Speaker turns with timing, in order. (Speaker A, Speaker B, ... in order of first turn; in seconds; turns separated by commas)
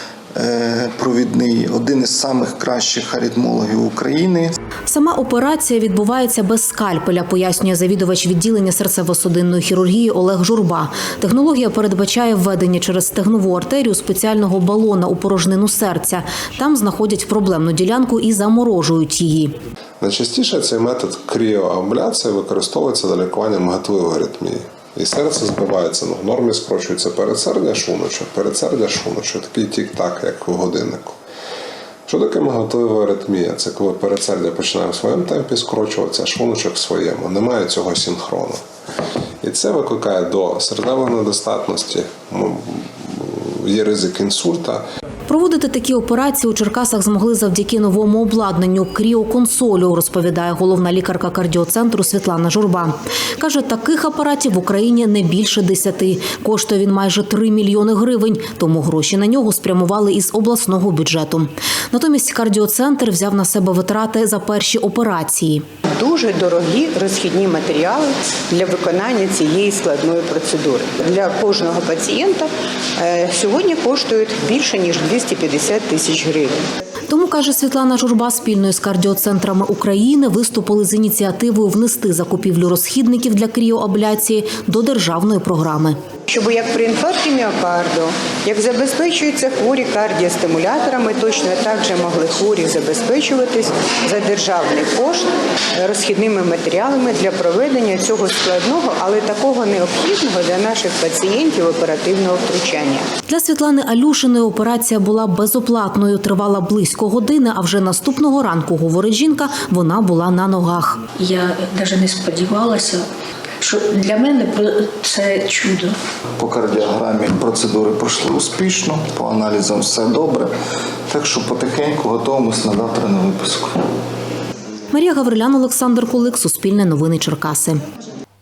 Speaker A: 0.3-4.5, Speaker B: 4.9-19.5, Speaker C: 20.0-31.2, Speaker C: 32.1-38.6, Speaker C: 39.4-44.8, Speaker B: 45.3-65.6, Speaker D: 66.0-72.5, Speaker D: 73.0-76.5, Speaker B: 77.1-86.0, Speaker D: 86.3-95.2, Speaker D: 95.8-103.0, Speaker B: 103.3-111.0, Speaker E: 111.2-113.0, Speaker E: 113.6-115.9, Speaker A: 116.4-120.5, Speaker A: 121.1-123.8, Speaker B: 124.9-127.8